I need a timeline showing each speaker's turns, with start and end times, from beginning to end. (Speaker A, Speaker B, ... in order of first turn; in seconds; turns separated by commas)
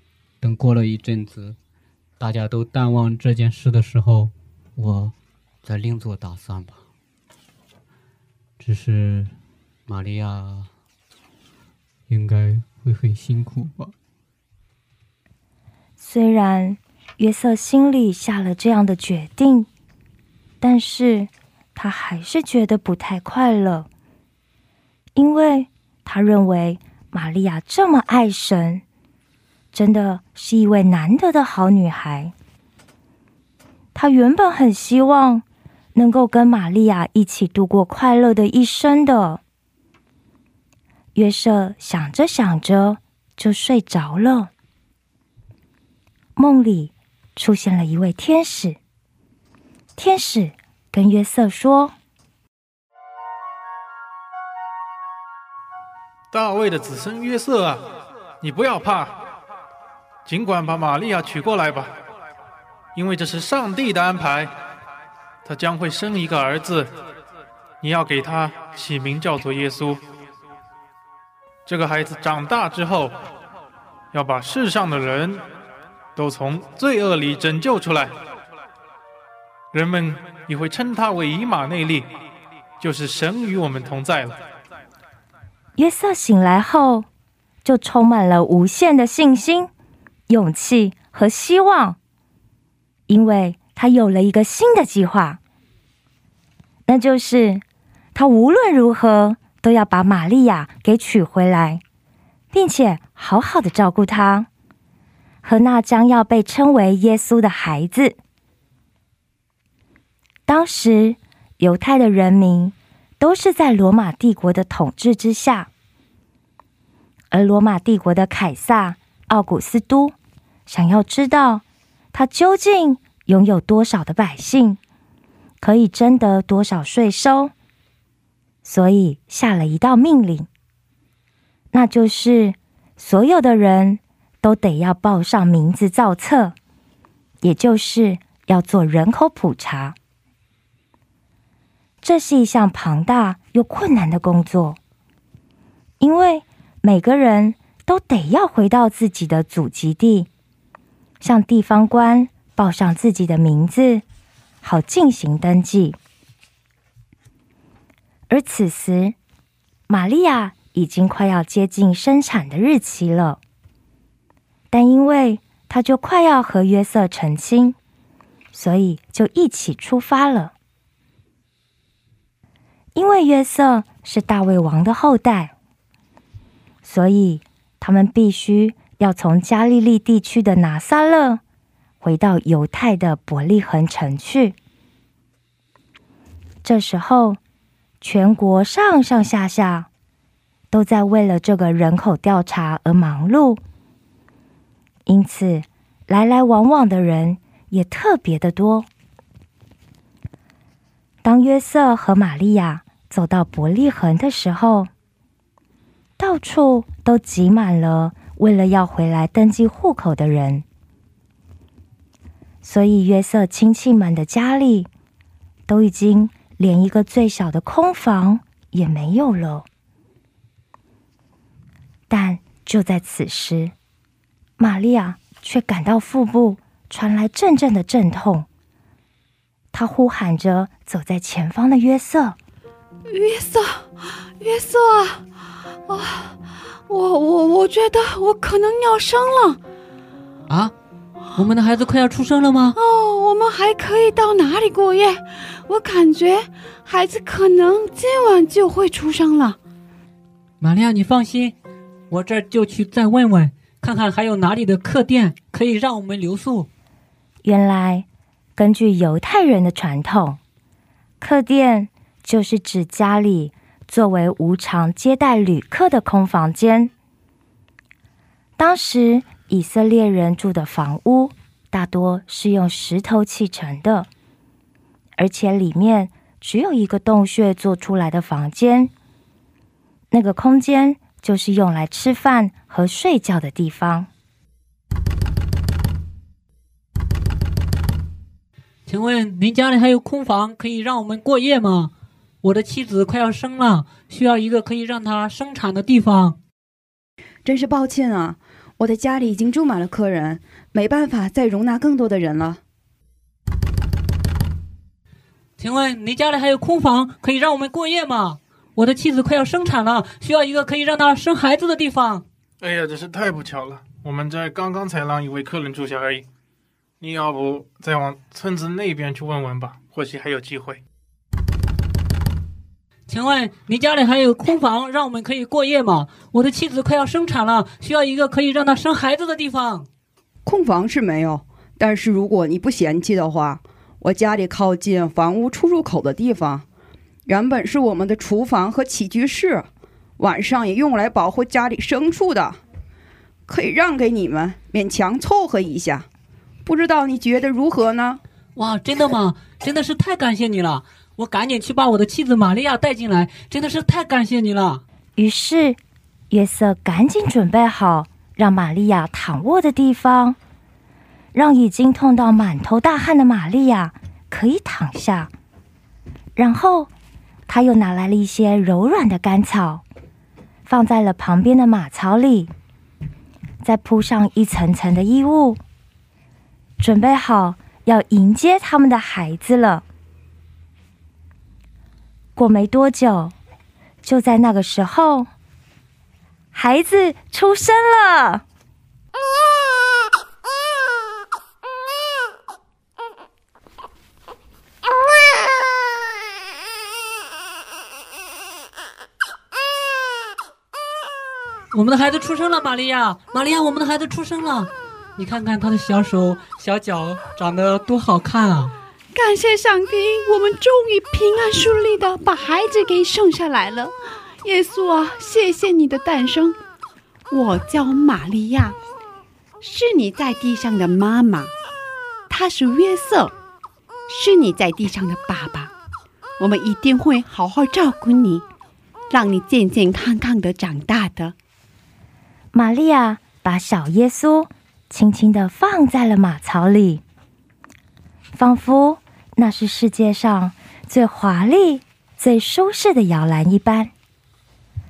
Speaker A: 0.4-1.6, Speaker A: 2.2-6.8, Speaker A: 8.6-9.3, Speaker A: 9.9-10.7, Speaker A: 12.1-13.9, Speaker B: 16.0-19.7, Speaker B: 20.6-23.9, Speaker B: 25.1-28.8, Speaker B: 29.7-32.3, Speaker B: 34.0-35.4, Speaker B: 36.0-39.4, Speaker B: 41.1-44.5, Speaker B: 46.4-48.8, Speaker B: 50.0-51.9, Speaker C: 56.3-57.9, Speaker C: 58.4-59.2, Speaker C: 60.3-62.0, Speaker C: 63.0-64.5, Speaker C: 65.5-66.9, Speaker C: 67.8-70.0, Speaker C: 71.7-73.2, Speaker C: 74.1-75.5, Speaker C: 76.2-78.2, Speaker C: 79.7-82.2, Speaker C: 82.8-84.4, Speaker B: 85.8-87.1, Speaker B: 87.6-89.7, Speaker B: 90.3-92.0, Speaker B: 93.1-95.4, Speaker B: 96.9-97.6, Speaker B: 98.2-101.8, Speaker B: 102.5-104.5, Speaker B: 105.4-108.2, Speaker B: 110.5-115.7, Speaker B: 117.3-120.1, Speaker B: 120.7-124.8, Speaker B: 125.6-127.5, Speaker B: 128.6-130.5, Speaker B: 131.7-136.6, Speaker B: 137.4-140.0, Speaker B: 142.0-144.8, Speaker B: 146.0-150.3, Speaker B: 151.2-154.0, Speaker B: 154.6-156.0, Speaker B: 158.3-159.2, Speaker B: 159.9-163.4, Speaker B: 164.7-167.8, Speaker B: 168.5-170.5, Speaker B: 173.0-175.5, Speaker B: 176.8-181.4, Speaker B: 182.0-184.6, Speaker B: 186.6-187.4, Speaker B: 188.0-189.9, Speaker B: 190.7-193.6, Speaker B: 195.1-198.9, Speaker B: 201.2-204.9, Speaker B: 206.2-210.7, Speaker B: 212.6-214.9, Speaker B: 215.7-219.7, Speaker B: 222.1-223.7, Speaker B: 224.6-228.5, Speaker B: 229.7-232.4, Speaker D: 233.1-235.2, Speaker D: 235.9-239.6, Speaker A: 240.5-240.7, Speaker A: 241.3-242.8, Speaker D: 242.8-249.6, Speaker A: 250.6-251.6, Speaker A: 252.1-256.7, Speaker B: 257.4-258.1, Speaker B: 258.6-260.4, Speaker B: 261.2-266.9, Speaker B: 268.6-274.1, Speaker B: 275.2-278.9, Speaker B: 280.1-284.1, Speaker A: 288.9-296.4, Speaker E: 297.4-302.6, Speaker A: 305.6-312.3, Speaker C: 312.6-316.3, Speaker C: 317.0-320.8, Speaker A: 323.1-329.9, Speaker E: 330.5-336.6, Speaker E: 337.3-339.7, Speaker E: 340.2-342.6, Speaker E: 343.5-346.1, Speaker E: 346.7-348.2, Speaker A: 348.6-354.8, Speaker B: 355.2-355.8, Speaker B: 356.3-360.4, Speaker B: 361.3-365.3, Speaker B: 366.4-366.9, Speaker B: 367.5-369.8, Speaker B: 370.7-372.5, Speaker B: 373.6-375.6, Speaker B: 376.8-379.8, Speaker B: 382.4-383.4, Speaker B: 384.0-385.3, Speaker B: 386.5-388.4, Speaker A: 401.7-408.8, Speaker D: 409.1-416.6, Speaker D: 417.3-418.8, Speaker D: 419.6-421.5, Speaker D: 422.3-423.3, Speaker D: 424.1-425.7, Speaker D: 426.4-428.5, Speaker D: 429.1-431.4, Speaker B: 432.5-437.0, Speaker B: 438.3-443.9